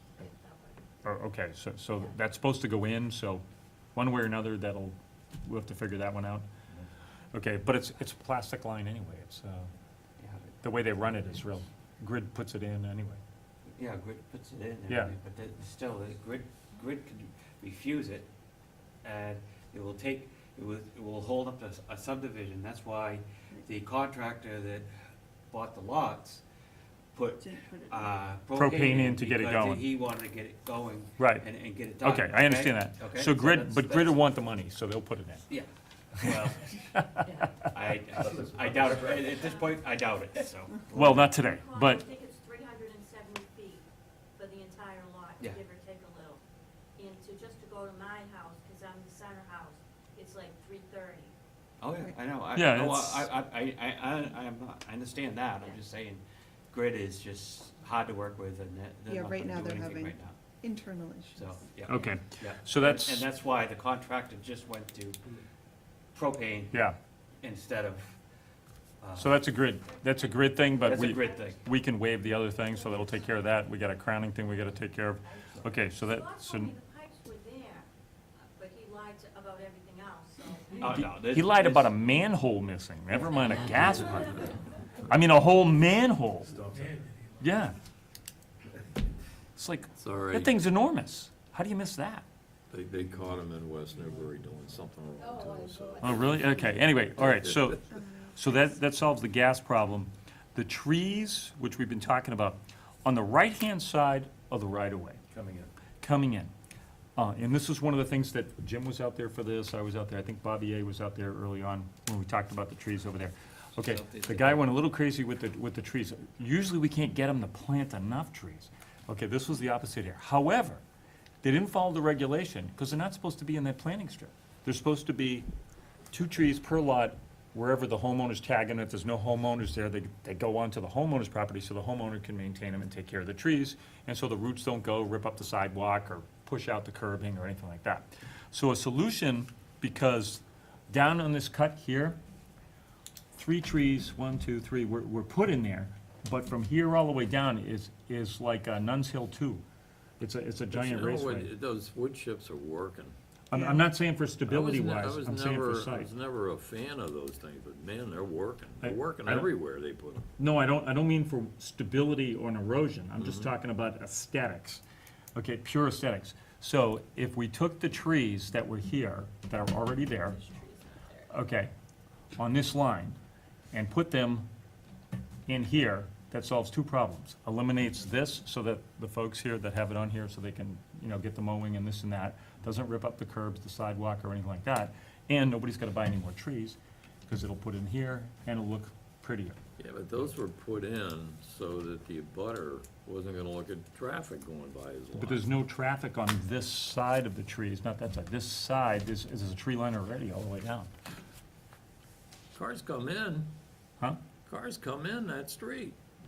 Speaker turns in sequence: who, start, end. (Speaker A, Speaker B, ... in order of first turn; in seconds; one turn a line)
Speaker A: 0.2-0.8
Speaker B: 1.0-3.4
Speaker B: 4.0-6.5
Speaker B: 7.3-9.7
Speaker C: 10.2-10.5
Speaker B: 10.6-13.2
Speaker C: 13.7-18.3
Speaker B: 14.9-15.1
Speaker C: 19.0-24.9
Speaker C: 25.5-26.4
Speaker C: 27.1-34.2
Speaker D: 27.4-28.1
Speaker B: 28.5-29.9
Speaker B: 31.2-31.5
Speaker B: 32.0-35.5
Speaker C: 35.5-41.4
Speaker A: 39.3-39.9
Speaker B: 40.9-42.0
Speaker A: 41.4-43.9
Speaker A: 44.4-46.4
Speaker A: 47.0-51.3
Speaker C: 51.8-60.4
Speaker B: 52.5-53.3
Speaker D: 59.1-61.5
Speaker C: 61.4-65.2
Speaker B: 61.9-63.3
Speaker C: 66.1-66.8
Speaker B: 66.7-67.0
Speaker C: 67.4-68.2
Speaker C: 69.0-69.4
Speaker B: 69.2-76.7
Speaker A: 69.6-73.7
Speaker C: 70.8-71.6
Speaker A: 75.8-77.9
Speaker A: 78.5-81.0
Speaker C: 80.8-81.9
Speaker B: 80.9-84.5
Speaker B: 85.0-86.7
Speaker B: 87.4-87.8
Speaker B: 89.6-92.2
Speaker E: 90.0-90.5
Speaker E: 92.7-97.7
Speaker A: 95.3-95.9
Speaker B: 96.0-105.2
Speaker E: 105.3-105.7
Speaker B: 106.0-106.5
Speaker B: 107.2-120.8
Speaker C: 113.8-114.7
Speaker B: 121.4-125.5
Speaker B: 126.1-142.2
Speaker B: 143.3-149.6
Speaker B: 150.2-151.5
Speaker E: 150.7-153.2
Speaker B: 153.5-156.1
Speaker E: 154.5-160.3
Speaker B: 158.8-159.5
Speaker B: 160.4-164.8
Speaker E: 163.2-163.5
Speaker B: 165.4-170.4
Speaker A: 170.2-171.3
Speaker B: 171.3-171.7
Speaker B: 172.4-173.2
Speaker B: 173.7-174.5
Speaker B: 175.5-189.6
Speaker E: 189.8-195.5
Speaker B: 195.2-200.9
Speaker E: 202.5-203.5
Speaker E: 204.5-206.0